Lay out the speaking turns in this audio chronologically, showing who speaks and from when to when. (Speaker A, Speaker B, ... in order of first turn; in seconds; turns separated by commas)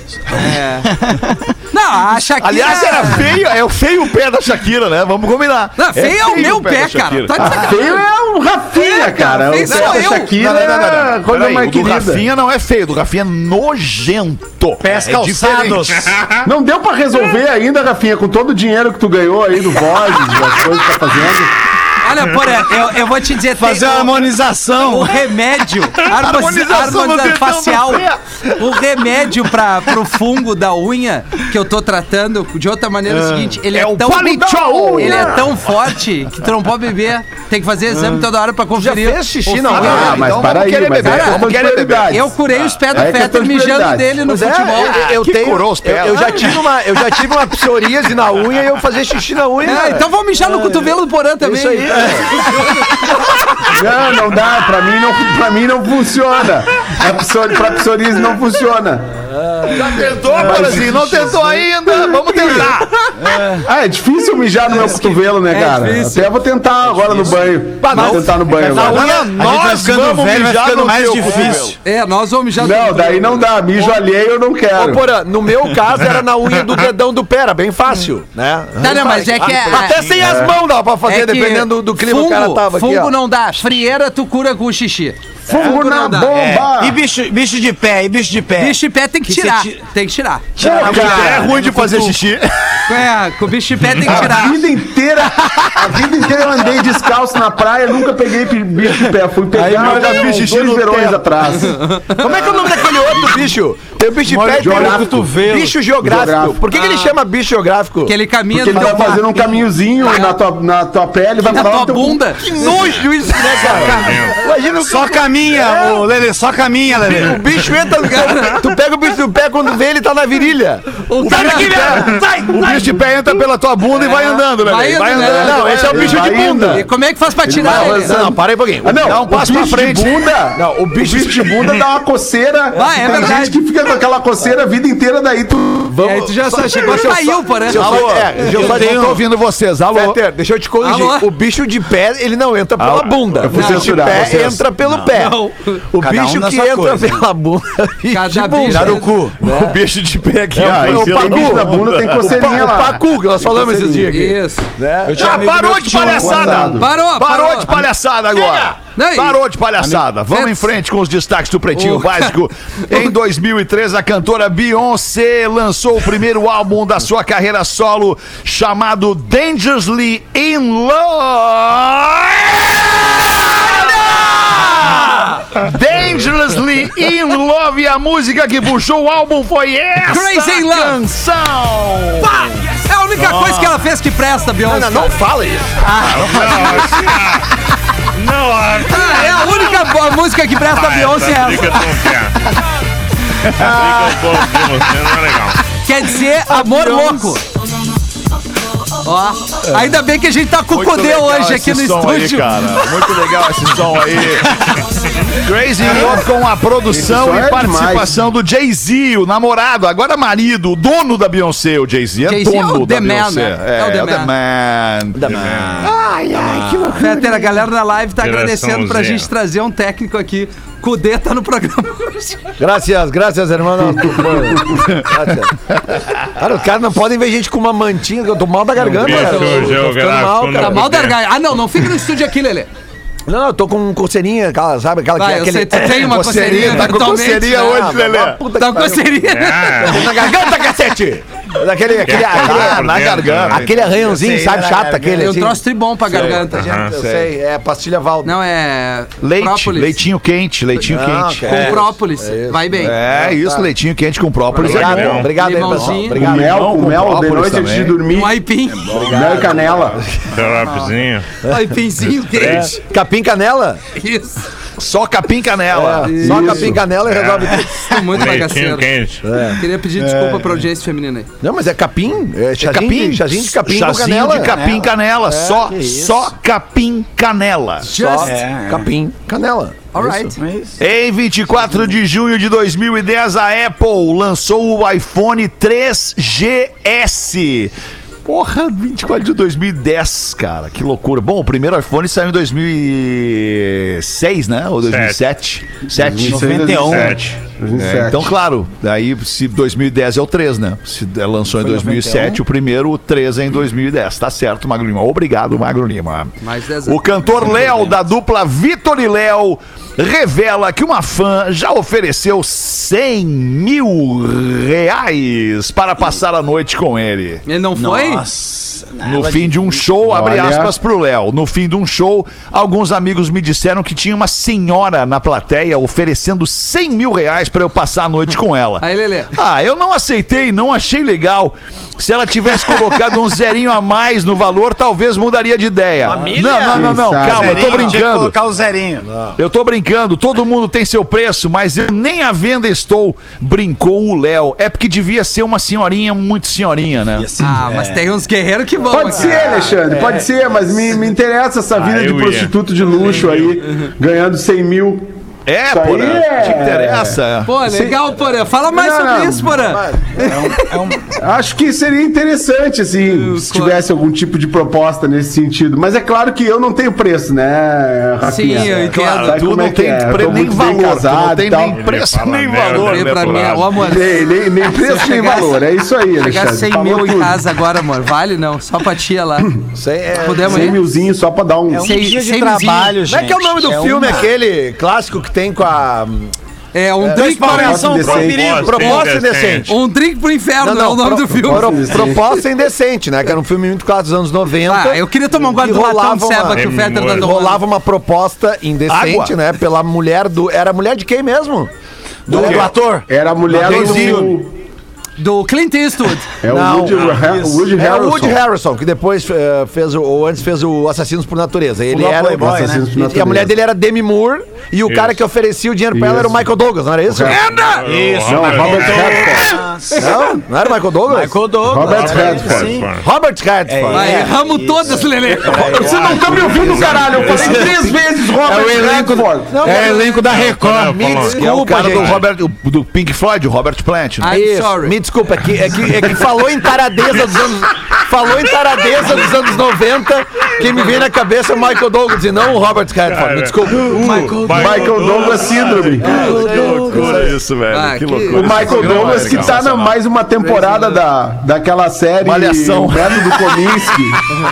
Speaker A: 0.3-1.5, Speaker B: 0.3-0.9, Speaker B: 1.7-3.2, Speaker C: 2.4-7.7, Speaker B: 5.8-8.0, Speaker D: 7.3-12.2, Speaker B: 8.7-10.3, Speaker E: 9.7-11.1, Speaker C: 10.5-15.8, Speaker A: 14.8-16.2, Speaker E: 15.2-15.9, Speaker F: 16.1-16.4, Speaker D: 16.4-21.5, Speaker B: 22.0-24.2, Speaker A: 22.6-25.2, Speaker B: 24.8-40.2, Speaker C: 26.0-28.8, Speaker A: 33.1-33.5, Speaker C: 33.7-35.5, Speaker E: 38.7-40.4, Speaker D: 39.7-42.3, Speaker C: 39.8-42.2, Speaker B: 41.0-41.5, Speaker B: 42.1-45.0, Speaker D: 42.9-44.2, Speaker E: 44.2-50.1, Speaker C: 44.8-46.7, Speaker B: 49.6-53.0, Speaker E: 51.4-53.0, Speaker D: 53.6-59.1, Speaker E: 59.5-60.0, Speaker C: 59.7-62.9, Speaker D: 60.4-62.7, Speaker A: 63.1-63.7, Speaker D: 63.6-69.2, Speaker B: 64.7-66.3, Speaker E: 67.8-69.4, Speaker B: 67.9-68.2, Speaker A: 68.5-71.8, Speaker C: 68.8-71.8, Speaker B: 71.8-74.0, Speaker D: 72.6-75.1, Speaker E: 74.7-83.1, Speaker B: 78.8-80.0, Speaker D: 80.2-80.5, Speaker B: 81.0-86.3, Speaker D: 85.5-87.0, Speaker A: 86.3-89.8, Speaker B: 88.6-90.6, Speaker A: 90.5-92.2, Speaker D: 90.6-91.6, Speaker C: 90.6-92.8, Speaker B: 92.9-94.7, Speaker D: 94.0-101.8, Speaker A: 99.5-100.2, Speaker C: 99.6-101.5, Speaker B: 101.6-102.6, Speaker E: 102.1-108.1, Speaker A: 104.2-105.8, Speaker D: 104.5-105.3, Speaker D: 106.0-106.6, Speaker B: 106.7-107.1, Speaker B: 108.0-110.4, Speaker D: 108.5-112.3, Speaker A: 108.8-109.2, Speaker B: 111.4-113.0, Speaker E: 112.4-116.0, Speaker F: 113.6-114.5, Speaker D: 113.8-114.1, Speaker A: 114.8-117.5, Speaker E: 117.0-122.7, Speaker B: 118.0-118.6, Speaker B: 121.1-121.9, Speaker C: 121.2-126.5, Speaker A: 121.2-122.9, Speaker B: 124.0-128.2, Speaker E: 125.1-126.8, Speaker D: 125.3-126.9, Speaker D: 127.4-136.0, Speaker E: 127.5-129.3, Speaker C: 129.0-130.2, Speaker E: 130.5-131.8, Speaker B: 132.7-133.6, Speaker E: 132.8-133.4, Speaker E: 135.9-139.2, Speaker B: 136.0-138.1, Speaker C: 137.7-140.2, Speaker A: 138.4-139.2, Speaker E: 139.9-145.4, Speaker B: 140.8-141.2, Speaker C: 142.8-143.7, Speaker D: 143.4-144.6, Speaker B: 143.5-144.0, Speaker A: 144.8-145.1, Speaker B: 145.1-145.8, Speaker E: 145.9-149.8, Speaker A: 146.0-147.2, Speaker B: 148.1-149.1, Speaker A: 148.7-149.3, Speaker C: 149.4-152.6, Speaker D: 150.6-153.9, Speaker E: 150.6-155.4, Speaker B: 154.1-154.7, Speaker A: 155.0-156.7, Speaker C: 155.1-182.3, Speaker D: 155.8-156.9, Speaker B: 156.8-157.7, Speaker E: 157.7-158.7, Speaker B: 158.9-159.4, Speaker B: 160.3-160.7, Speaker B: 161.7-162.3, Speaker B: 180.1-180.9, Speaker B: 182.2-185.2, Speaker E: 184.6-186.8, Speaker B: 185.8-186.4, Speaker F: 186.1-187.5, Speaker C: 186.2-187.1, Speaker F: 188.1-189.9, Speaker B: 188.8-192.1, Speaker F: 190.6-192.5, Speaker C: 193.4-194.2, Speaker F: 193.6-195.7, Speaker A: 193.6-194.0, Speaker B: 195.8-197.4, Speaker A: 196.7-196.9, Speaker B: 199.0-203.1, Speaker C: 200.7-216.8, Speaker D: 206.9-208.1, Speaker B: 212.2-214.3, Speaker E: 215.2-217.6, Speaker F: 215.3-215.9, Speaker B: 216.9-222.5, Speaker F: 218.2-219.3, Speaker E: 222.6-225.5, Speaker E: 226.3-230.9, Speaker B: 228.9-229.8, Speaker F: 228.9-231.2, Speaker B: 230.5-232.7, Speaker E: 233.3-242.9, Speaker B: 235.2-237.7, Speaker C: 235.9-238.4, Speaker B: 238.5-240.0, Speaker F: 239.2-240.1, Speaker F: 242.1-243.7, Speaker C: 242.1-244.1, Speaker E: 243.5-248.4, Speaker A: 244.1-245.4, Speaker B: 245.2-246.7, Speaker F: 246.2-247.0, Speaker C: 246.9-247.3, Speaker B: 248.2-250.1, Speaker C: 249.2-251.4, Speaker E: 250.8-253.7, Speaker B: 251.4-253.0, Speaker C: 252.8-255.3, Speaker E: 254.5-256.7, Speaker F: 254.6-255.4, Speaker B: 255.4-256.2, Speaker D: 256.1-258.4, Speaker C: 256.2-258.0, Speaker B: 258.1-259.1, Speaker E: 258.9-260.4, Speaker D: 258.9-260.0, Speaker F: 260.2-261.3, Speaker B: 261.5-262.8, Speaker E: 262.3-263.8, Speaker B: 263.9-264.4, Speaker C: 264.8-266.6, Speaker E: 265.7-268.0, Speaker B: 266.0-266.7, Speaker D: 266.2-266.8, Speaker F: 267.1-267.4, Speaker B: 267.8-271.3, Speaker F: 268.1-269.3, Speaker E: 269.2-269.6, Speaker A: 270.0-270.6, Speaker E: 271.4-274.5, Speaker C: 272.6-277.9, Speaker A: 272.7-273.2, Speaker A: 274.4-274.9, Speaker E: 275.3-275.7, Speaker A: 275.6-276.3, Speaker E: 277.8-280.3, Speaker B: 277.8-278.4, Speaker A: 278.2-278.9, Speaker B: 279.9-280.4, Speaker A: 280.4-280.8, Speaker C: 280.8-287.7, Speaker C: 288.2-296.9, Speaker F: 294.8-295.2, Speaker D: 295.9-298.3, Speaker A: 296.2-297.3, Speaker F: 296.9-297.2, Speaker C: 297.7-317.4, Speaker A: 301.5-302.4, Speaker B: 306.4-308.1, Speaker B: 317.4-318.2, Speaker A: 317.7-319.8, Speaker C: 319.0-338.3, Speaker D: 320.0-320.7, Speaker B: 328.8-329.3, Speaker A: 336.0-339.1, Speaker D: 336.7-338.0, Speaker C: 339.4-347.3, Speaker A: 347.1-348.0, Speaker B: 347.4-349.9, Speaker D: 348.9-355.1, Speaker F: 351.7-353.6, Speaker C: 355.4-357.5, Speaker D: 355.7-357.2, Speaker B: 357.4-360.6, Speaker D: 358.7-359.6, Speaker E: 359.5-360.2, Speaker A: 360.2-361.2, Speaker D: 361.1-371.8, Speaker B: 363.1-363.8, Speaker B: 368.2-369.4, Speaker C: 369.2-373.7, Speaker F: 371.7-373.9, Speaker B: 372.7-375.6, Speaker D: 373.8-377.4, Speaker B: 376.2-379.5, Speaker E: 379.7-380.8, Speaker B: 380.1-380.8, Speaker D: 380.4-381.9, Speaker A: 381.7-384.3, Speaker B: 381.8-383.0, Speaker E: 383.1-386.3, Speaker B: 386.7-387.9, Speaker E: 387.0-387.8, Speaker A: 387.1-389.1, Speaker D: 387.6-388.5, Speaker F: 388.0-389.7, Speaker E: 388.5-389.8, Speaker B: 389.6-391.8, Speaker E: 390.6-401.7, Speaker D: 391.4-392.4, Speaker B: 394.7-397.6, Speaker F: 396.6-397.3, Speaker C: 398.9-399.4, Speaker E: 402.3-402.7, Speaker A: 402.3-404.3, Speaker C: 402.3-402.7, Speaker D: 402.4-404.5, Speaker E: 403.5-404.3, Speaker C: 403.9-404.2, Speaker B: 405.2-406.3, Speaker D: 406.4-408.4, Speaker E: 406.5-417.6, Speaker A: 407.3-407.7, Speaker A: 411.9-412.8, Speaker D: 412.3-413.5, Speaker F: 414.9-415.2, Speaker D: 415.9-416.5, Speaker D: 417.0-417.4, Speaker B: 417.3-417.8, Speaker F: 417.3-419.4, Speaker A: 417.8-420.4, Speaker D: 418.2-419.6, Speaker E: 419.9-421.4, Speaker B: 420.0-420.4, Speaker A: 421.1-422.9, Speaker D: 421.6-422.8, Speaker F: 421.8-423.1, Speaker E: 422.9-424.4, Speaker A: 423.7-431.2, Speaker B: 423.9-425.8, Speaker D: 425.3-429.8, Speaker F: 425.6-427.8, Speaker E: 426.6-427.0, Speaker E: 429.5-430.2, Speaker F: 429.9-432.2, Speaker E: 430.8-432.2, Speaker C: 431.4-434.4, Speaker B: 434.2-435.0, Speaker E: 434.2-444.3, Speaker F: 443.1-446.0, Speaker A: 443.8-445.1, Speaker D: 444.5-446.4, Speaker A: 446.0-447.3, Speaker E: 446.0-447.3, Speaker B: 446.0-446.9, Speaker C: 446.5-449.9, Speaker B: 447.7-449.1, Speaker D: 448.3-454.3, Speaker F: 448.3-449.8, Speaker B: 450.5-450.9, Speaker C: 452.2-453.7